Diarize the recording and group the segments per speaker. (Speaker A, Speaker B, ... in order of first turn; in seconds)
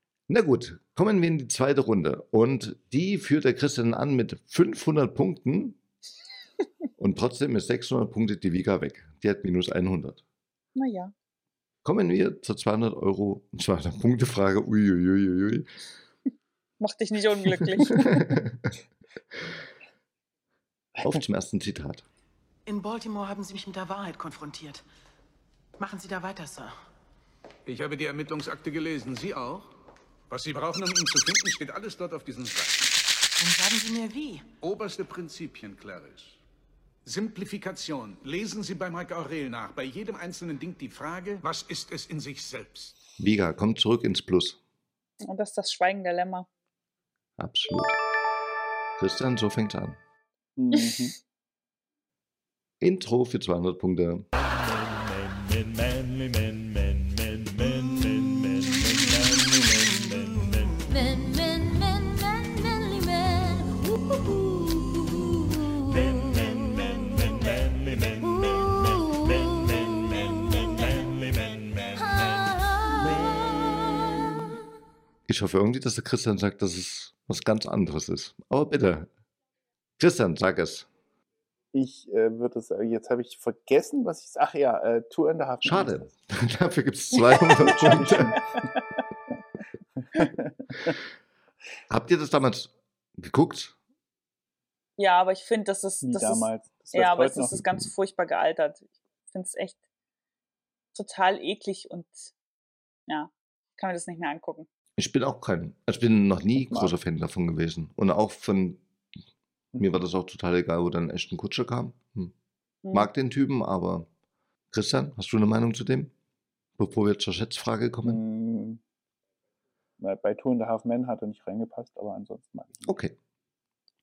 Speaker A: 0.3-5.8, 7.0-10.2, 11.8-15.7, 17.9-18.7, 21.0-22.0, 43.2-44.6, 47.4-48.0, 49.0-50.0, 52.8-54.2, 75.3-79.1, 80.0-80.9, 85.6-88.3, 91.9-93.8, 105.0-108.8, 109.8-112.3, 112.9-114.1, 114.7-116.1, 116.8-118.2, 122.8-123.1
Speaker B: 10.8-11.1, 16.8-18.2, 45.2-46.5, 87.3-88.0, 95.0-99.8, 100.9-102.3, 103.1-104.7, 112.8-113.1
Speaker C: 22.7-24.8, 25.8-26.7, 33.4-34.5
Speaker D: 27.6-29.7, 30.3-32.9, 34.6-36.4, 37.0-42.9
Speaker E: 50.5-51.1, 81.7-86.0, 87.7-88.4, 90.1-91.0, 96.0-97.7, 106.6-106.9, 118.0-118.8, 120.0-122.9